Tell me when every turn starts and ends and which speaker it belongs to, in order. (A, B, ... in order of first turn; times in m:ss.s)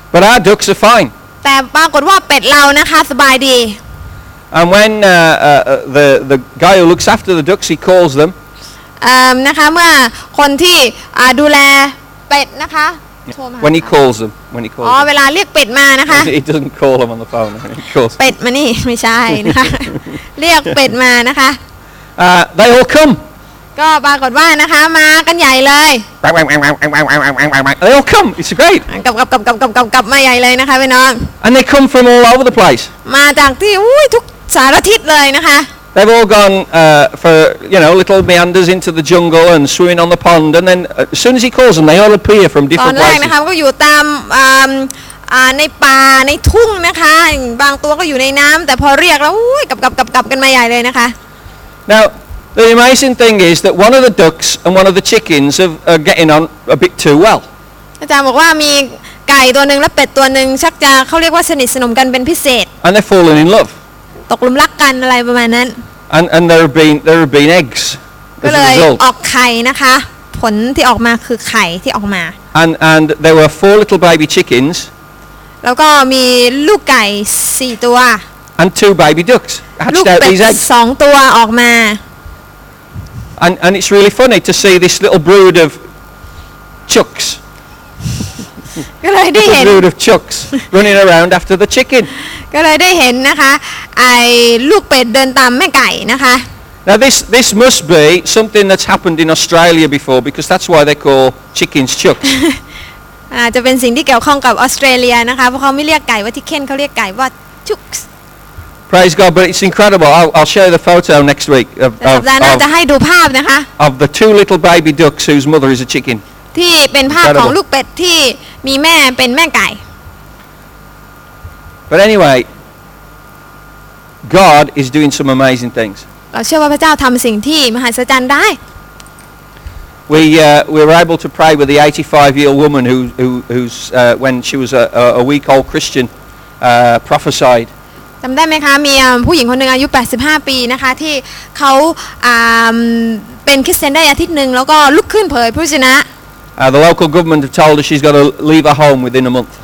0:00.1-0:01.1 A
0:01.4-0:03.8 B
0:04.5-0:08.3 A
0:09.0-0:13.9 B
0:13.6-0:15.0 A
0:14.8-0:16.3 B
0:16.1-0:18.2 A
0:18.2-0:21.6 B
0:19.4-0:20.0 A
0:22.2-0:23.2 A
0:23.8-0:26.1 B
0:26.2-0:28.9 A
0:28.9-0:31.3 B
0:31.4-0:32.9 A
0:33.0-0:35.7 B
0:35.9-0:43.3 A
0:42.8-0:51.2 B
0:51.9-0:57.5 A
0:58.0-1:02.7 B
1:02.8-1:03.7 A
1:04.3-1:05.8 B
1:06.1-1:09.0 A
1:08.4-1:12.4 B
1:12.5-1:14.9 A
1:15.6-1:18.2 B
1:18.6-1:20.6 A
1:19.9-1:22.0 B
1:23.4-1:25.8 A
1:26.9-1:27.4 A
1:29.0-1:29.8 B
1:29.4-1:32.1 A
1:32.5-1:36.4 B
1:36.9-1:42.2 A
1:42.2-1:42.6 B
1:43.3-1:48.1 B
1:48.9-1:52.6 A
1:52.0-1:53.7 B
1:53.8-1:56.2 A
1:56.5-1:59.8 B
1:57.2-1:57.6 A
2:01.9-2:02.5 A
2:04.2-2:06.0 A
2:06.3-2:08.6 B
2:10.1-2:16.1 A
2:16.6-2:17.7 A
2:18.2-2:26.1 B
2:26.6-2:29.5 A